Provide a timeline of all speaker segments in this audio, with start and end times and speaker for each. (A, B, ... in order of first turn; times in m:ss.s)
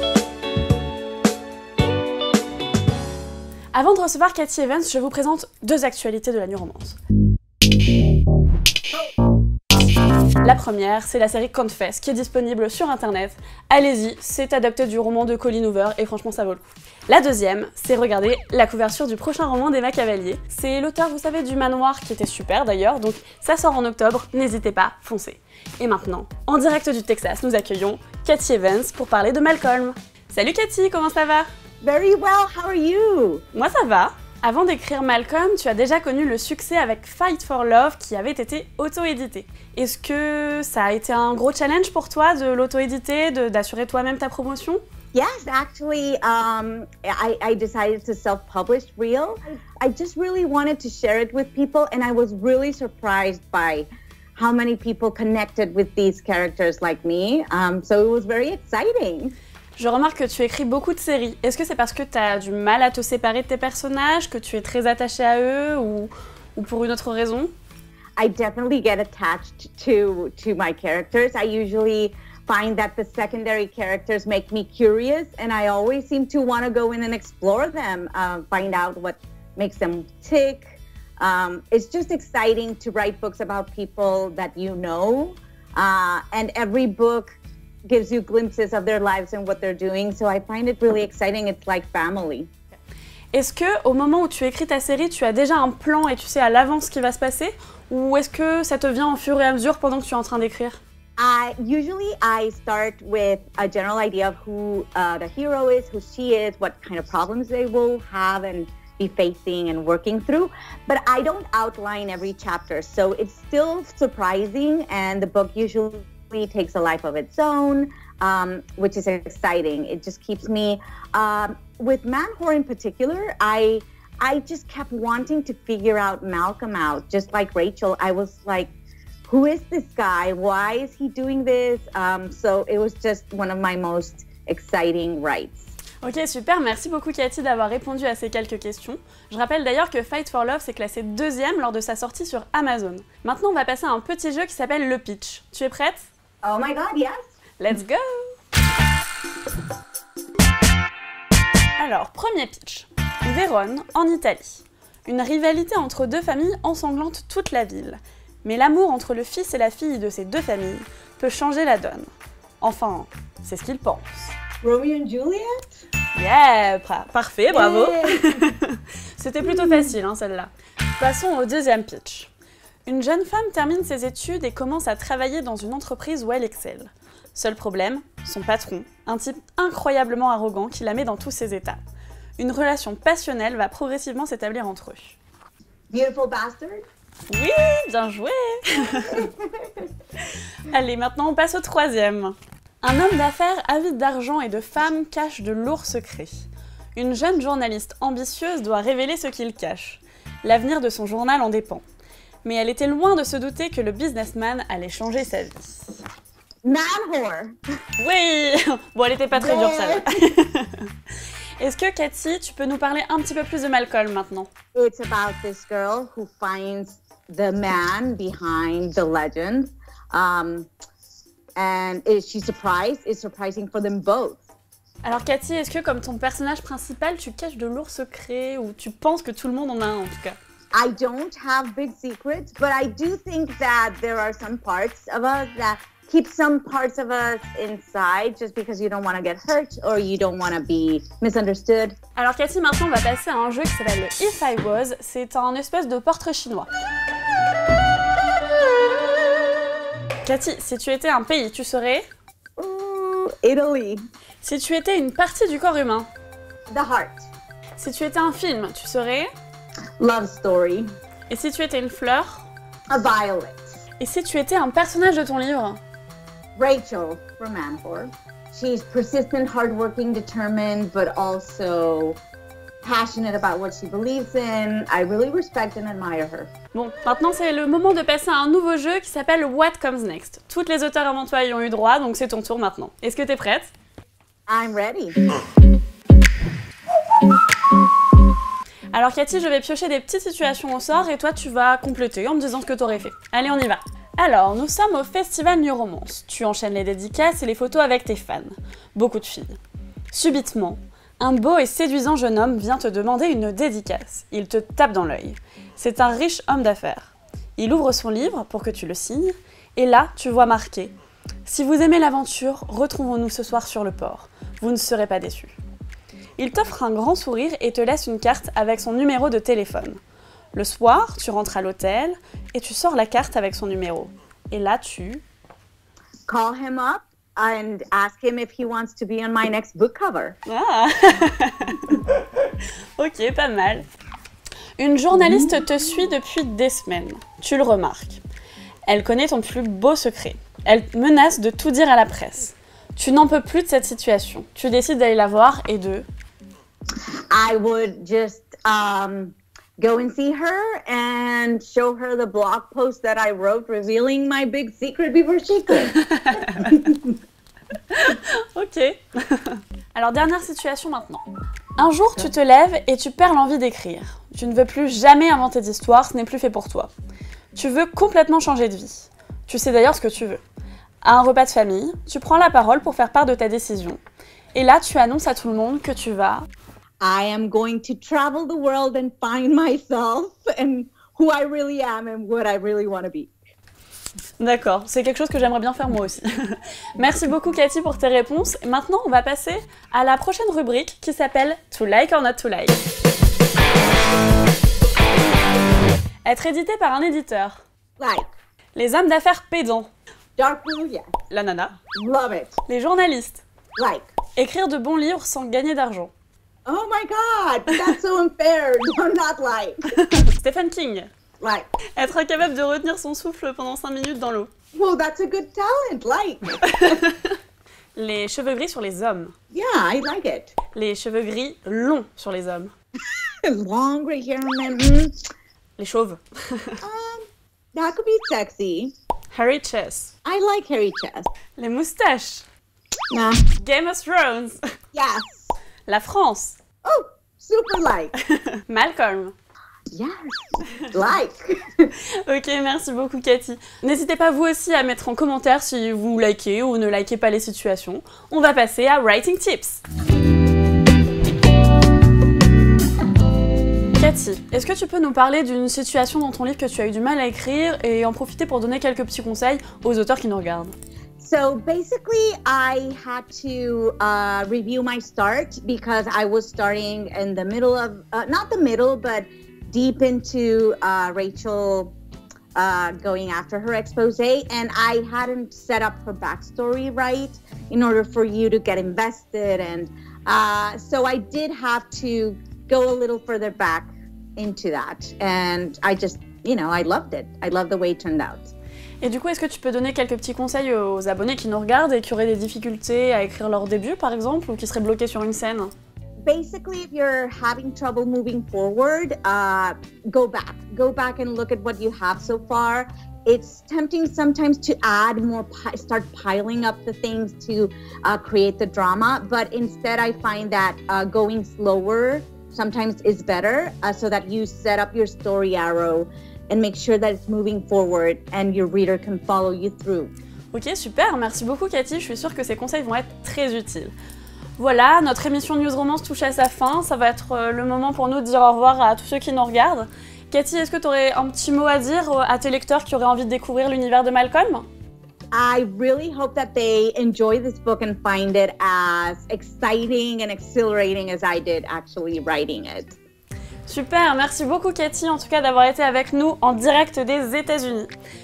0:03.7-0:07.0 A
0:10.4-0:31.5 A
0:31.8-0:33.4 B
0:33.5-0:44.8 A
0:45.1-0:59.4 B
0:59.8-1:07.5 A
1:08.2-1:27.3 B
1:27.9-1:32.5 B
1:33.3-1:40.8 A
1:41.2-2:08.7 B
2:09.3-2:15.7 B
2:16.0-2:26.1 A
2:26.4-2:27.2 B
2:27.6-2:28.4 A
2:31.8-2:42.1 A
2:42.6-2:44.3 A
2:44.6-2:45.7 B
2:46.2-2:52.3 A
2:47.5-2:48.4 B
2:49.4-2:49.9 B
2:52.9-3:01.8 A
3:02.4-3:05.2 A
3:05.9-3:06.8 B
3:07.3-3:09.3 A
3:09.1-3:09.9 B
3:10.6-3:21.8 A
3:22.4-3:26.0 A
3:26.6-3:27.6 B
3:28.0-3:30.9 A
3:29.3-3:30.3 B
3:31.6-3:34.5 A
3:34.7-3:40.7 B
3:41.6-3:44.4 B
3:45.0-3:50.4 A
3:50.7-4:02.0 B
4:02.2-4:06.7 A
4:10.2-4:12.1 A
4:12.6-4:14.0 B
4:14.4-4:16.1 A
4:16.7-4:17.3 B
4:17.8-4:19.3 A
4:20.0-4:20.9 B
4:21.3-4:22.5 A
4:22.9-4:23.7 B
4:24.0-4:25.8 A
4:26.6-4:32.2 B
4:32.8-4:36.5 B
4:36.7-4:43.7 A
4:44.5-4:45.2 B
4:48.9-4:59.6 A
5:00.1-5:10.9 A
5:11.5-5:15.5 A
5:16.4-5:20.0 A
5:20.5-5:25.2 A
5:26.3-5:30.4 B
5:30.5-5:33.9 A
5:34.8-5:38.2 A
5:35.2-5:35.5 B
5:38.9-5:46.1 A
5:47.3-5:57.1 B
5:55.9-5:56.8 A
5:57.9-6:01.2 A
6:01.8-6:06.9 A
6:07.5-6:10.4 A
6:11.0-6:14.0 A
6:14.5-6:16.5 A
6:17.0-6:23.3 B
6:24.4-6:32.8 A
6:36.2-6:37.6 A
6:38.0-6:38.3 B
6:38.8-6:39.9 A
6:40.4-6:41.1 B
6:41.3-6:41.8 A
6:42.0-6:42.6 B
6:42.7-6:43.4 A
6:43.8-6:44.1 B
6:44.4-6:46.1 A
6:46.7-6:50.0 B
6:50.0-6:51.1 A
6:51.4-6:51.7 B
6:52.0-6:54.5 A
6:54.7-6:57.0 B
6:56.6-6:57.4 A
6:58.0-6:59.3 A
6:59.5-7:00.5 B
7:00.7-7:02.7 A
7:03.4-7:05.1 B
7:05.8-7:06.8 A
7:06.8-7:08.9 B
7:09.3-7:10.1 A
7:10.2-7:11.3 B
7:11.6-7:12.5 A
7:13.1-7:13.4 B
7:13.6-7:14.6 A
7:14.9-7:15.6 B
7:15.9-7:16.6 A
7:16.8-7:18.1 B
7:18.2-7:19.3 A
7:19.9-7:21.9 B
7:22.2-7:29.8 A
7:34.0-7:40.7 A
7:41.2-7:52.0 B
7:52.6-8:08.5 B
8:09.0-8:15.7 A
8:16.3-8:40.1 B
8:40.5-8:43.9 A
8:44.6-8:54.7 A
8:55.3-9:03.0 B
9:03.7-9:07.9 A